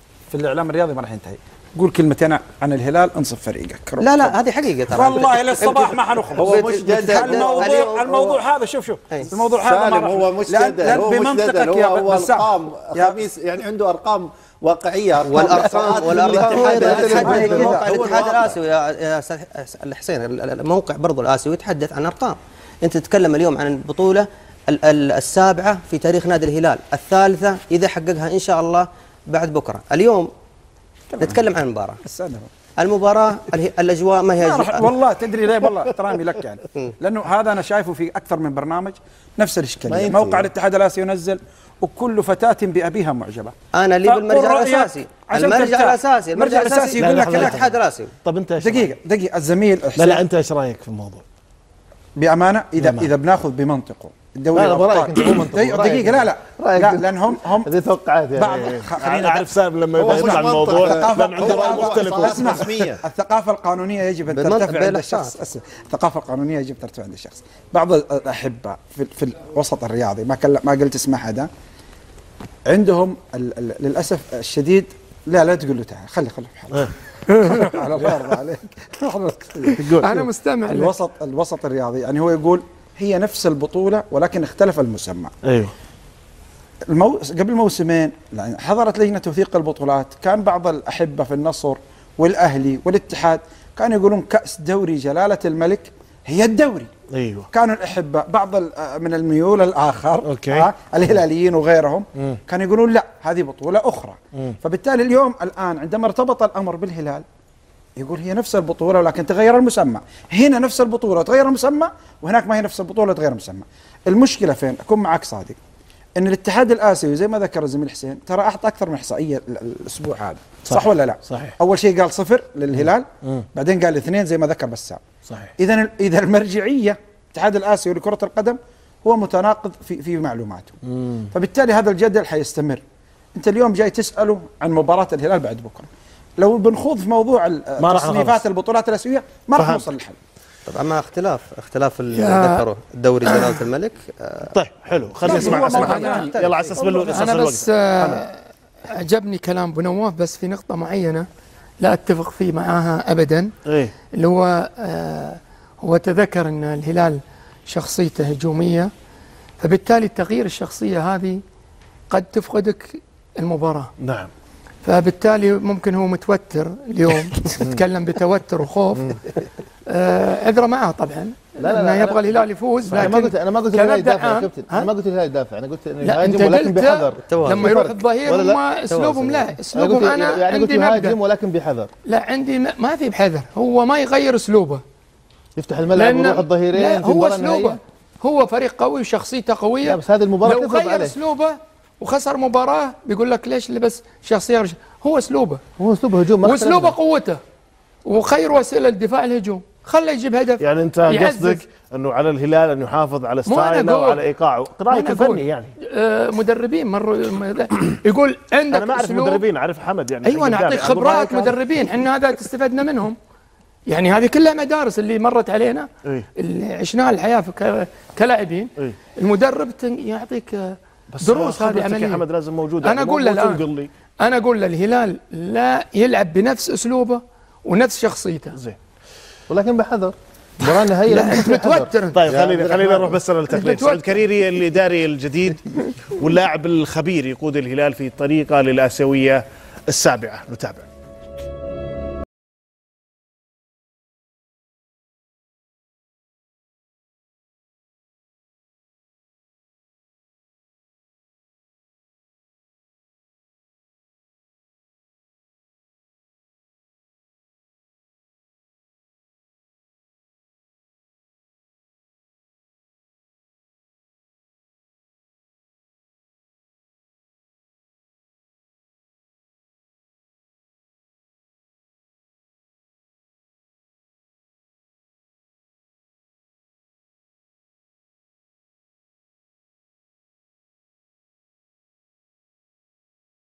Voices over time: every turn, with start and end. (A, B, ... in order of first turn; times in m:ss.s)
0:00.3-0:04.4 A
0:04.0-0:08.3 B
0:04.9-0:13.2 A
0:06.4-0:08.1 C
0:09.5-0:18.5 C
0:15.2-0:30.3 B
0:15.7-0:18.5 D
0:16.6-0:18.3 A
0:31.1-0:31.5 A
0:31.2-0:32.0 B
0:32.0-0:32.5 A
0:32.8-0:34.9 B
0:34.4-0:43.5 A
0:39.9-0:40.5 E
0:43.7-0:48.1 B
0:44.0-0:47.7 A
0:47.0-0:48.9 E
0:48.6-0:50.2 A
0:50.0-0:51.2 E
0:52.2-0:57.7 A
0:52.8-0:53.1 E
0:54.5-0:58.6 D
0:58.4-1:11.5 A
0:58.4-1:02.9 E
1:00.0-1:03.0 C
1:04.3-1:05.4 B
1:12.7-1:19.8 A
1:17.6-1:18.1 E
1:19.8-1:20.3 E
1:20.0-1:20.9 F
1:20.7-1:25.3 A
1:25.5-1:25.7 E
1:26.9-1:36.9 A
1:37.1-1:37.5 E
1:37.5-1:47.2 A
1:40.2-1:41.2 E
1:48.0-1:55.6 A
1:56.2-2:05.0 A
2:00.7-2:01.6 E
2:02.7-2:03.4 E
2:05.3-2:05.5 E
2:05.6-2:10.8 A
2:10.9-2:11.3 E
2:11.3-2:12.8 A
2:13.4-2:20.2 A
2:17.8-2:18.4 E
2:19.6-2:19.8 E
2:20.7-2:24.5 B
2:22.2-2:22.6 F
2:23.3-2:23.6 F
2:24.5-2:28.2 E
2:25.2-2:27.2 A
2:25.3-2:31.3 F
2:31.8-2:33.5 F
2:33.7-2:33.9 E
2:34.2-2:38.9 F
2:39.6-2:41.4 F
2:42.1-2:43.9 F
2:44.0-2:44.3 E
2:44.8-2:49.2 F
2:49.9-2:54.9 F
2:51.6-2:52.3 D
2:52.9-2:58.6 D
2:56.0-3:01.2 F
2:57.3-2:57.7 B
2:58.9-2:59.4 B
2:59.7-3:01.9 D
3:02.1-3:04.8 F
3:05.6-3:07.8 D
3:05.9-3:15.6 F
3:09.8-3:11.2 D
3:15.8-3:17.0 D
3:16.4-3:17.4 F
3:18.1-3:21.6 F
3:20.6-3:25.7 E
3:23.4-3:24.2 F
3:24.9-3:29.4 F
3:28.7-3:31.6 E
3:30.2-3:33.2 F
3:33.9-3:42.2 F
3:41.1-3:43.9 E
3:42.8-3:43.6 F
3:44.2-3:48.6 F
3:49.5-3:53.1 D
3:51.1-3:52.2 F
3:52.1-3:55.6 E
3:52.3-3:52.6 C
3:53.5-3:54.0 F
3:56.2-4:00.9 E